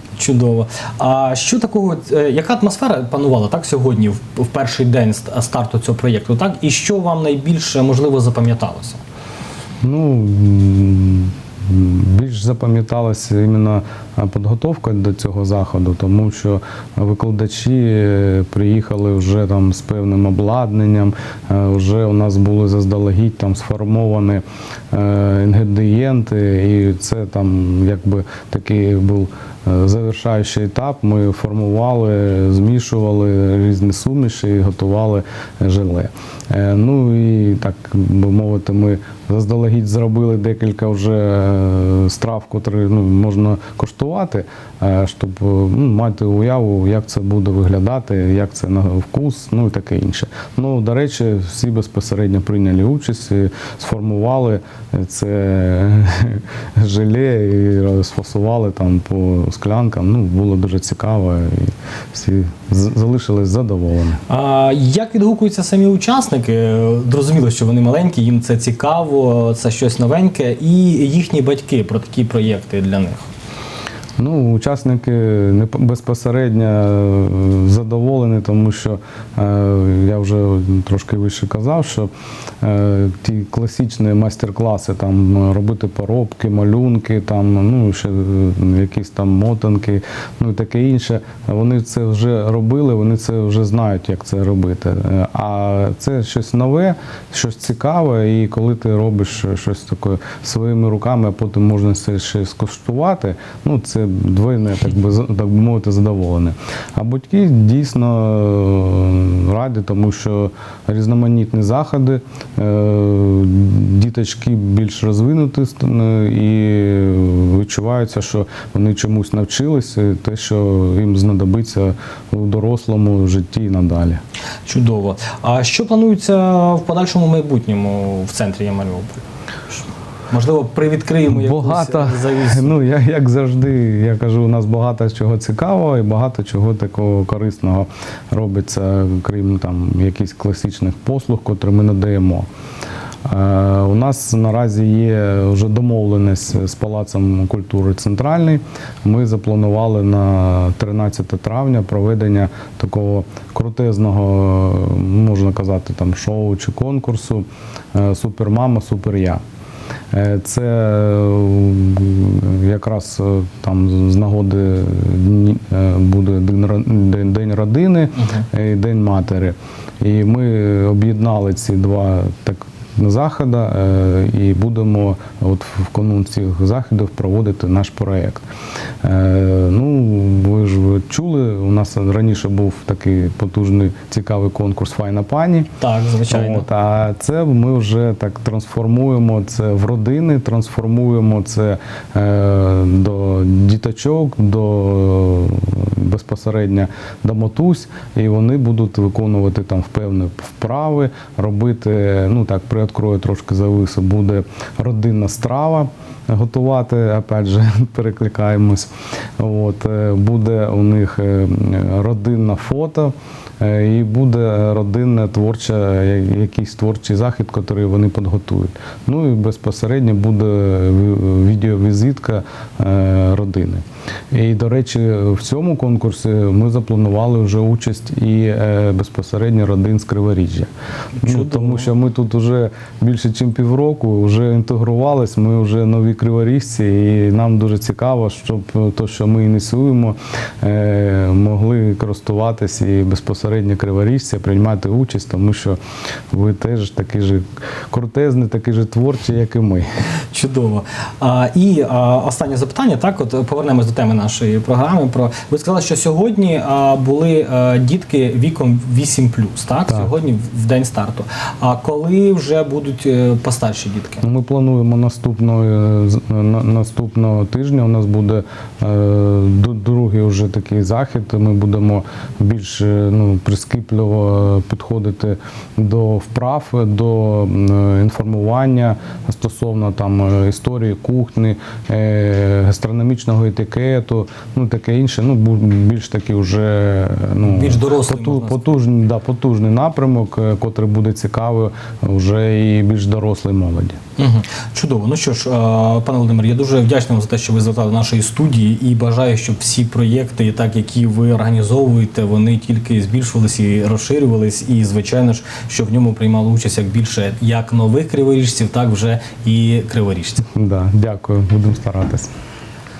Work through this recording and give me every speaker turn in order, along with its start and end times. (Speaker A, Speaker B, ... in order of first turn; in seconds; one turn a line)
Speaker A: 0.2-9.0
Speaker B: 9.8-64.2
Speaker A: 64.3-73.3
Speaker B: 74.2-82.1
Speaker B: 82.6-124.2
Speaker A: 124.7-132.7
Speaker B: 131.3-142.5
Speaker B: 143.2-159.4
Speaker B: 160.1-178.4
Speaker B: 179.0-185.7
Speaker A: 185.8-186.6
Speaker B: 186.3-245.8
Speaker A: 231.2-231.9
Speaker B: 246.3-249.9
Speaker A: 250.3-264.2
Speaker B: 264.2-294.0
Speaker A: 287.5-288.8
Speaker A: 294.2-310.5
Speaker B: 310.5-312.3